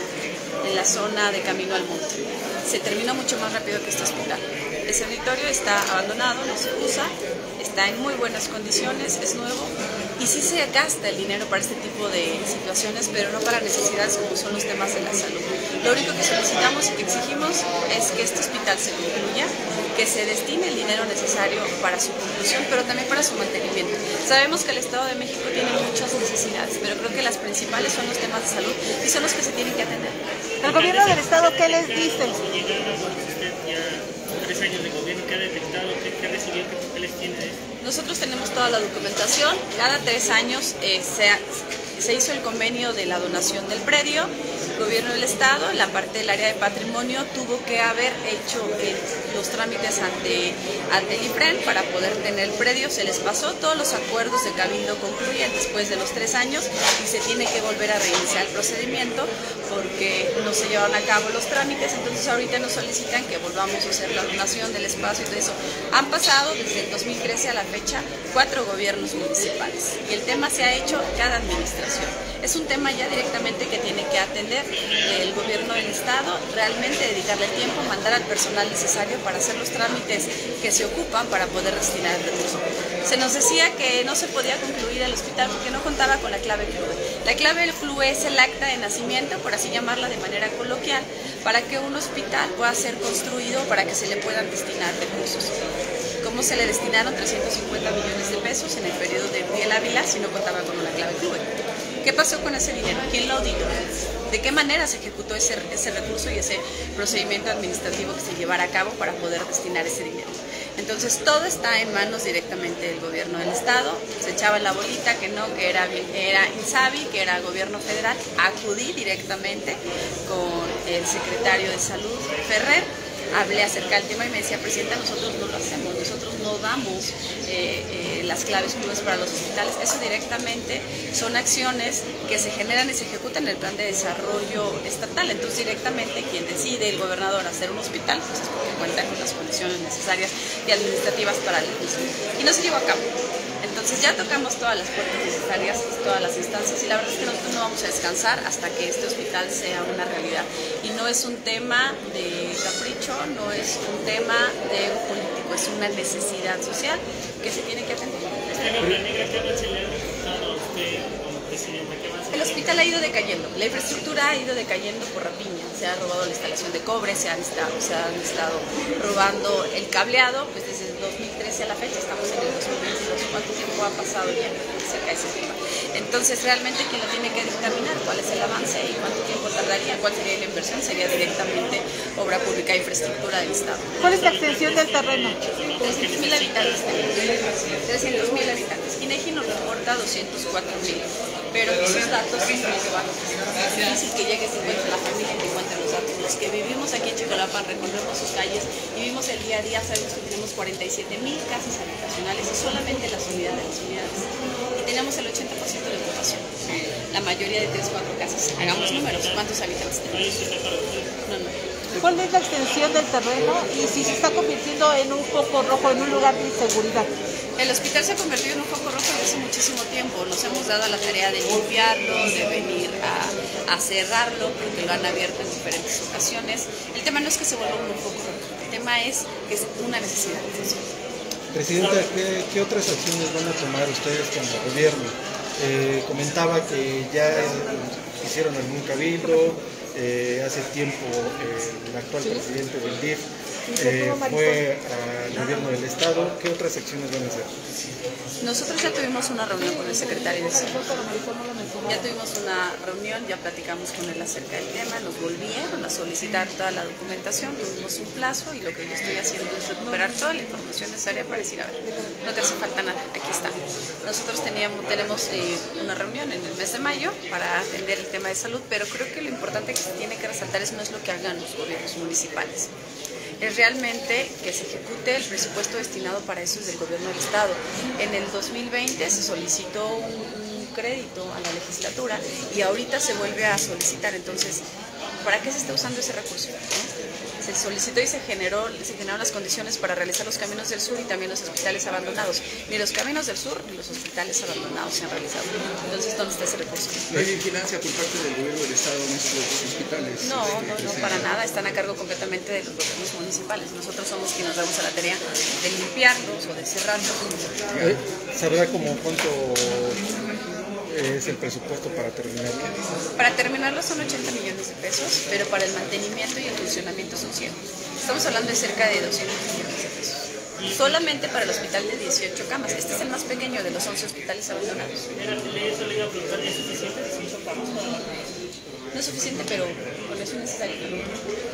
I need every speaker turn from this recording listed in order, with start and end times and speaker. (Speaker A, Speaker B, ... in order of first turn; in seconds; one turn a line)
Speaker A: 0.6-30.2
Speaker B: 30.6-37.6
Speaker C: 30.6-32.4
Speaker A: 37.8-41.4
Speaker A: 42.0-95.5
Speaker A: 96.2-101.5
Speaker A: 102.0-103.8
Speaker A: 104.3-143.1
Speaker A: 143.6-158.9
Speaker B: 158.6-162.8
Speaker A: 162.3-184.0
Speaker C: 184.0-185.4
Speaker B: 184.0-187.1
Speaker A: 185.8-206.5
Speaker A: 207.1-210.3
Speaker B: 208.6-209.5
Speaker B: 210.1-211.1
Speaker A: 211.3-212.2
Speaker C: 212.0-217.1
Speaker A: 217.6-230.9
Speaker D: 231.5-247.5
Speaker C: 243.7-244.6
Speaker A: 248.4-250.9
Speaker C: 249.5-252.1
Speaker A: 251.8-272.7
Speaker A: 273.4-284.6
Speaker A: 285.2-297.0
Speaker E: 297.1-301.3
Speaker A: 300.2-307.5
Speaker D: 300.4-301.3
Speaker E: 307.7-308.0
Speaker D: 307.8-310.0
Speaker D: 310.8-312.9
Speaker A: 313.2-325.0
Speaker B: 320.6-321.0
Speaker B: 325.1-328.1
Speaker A: 328.9-331.1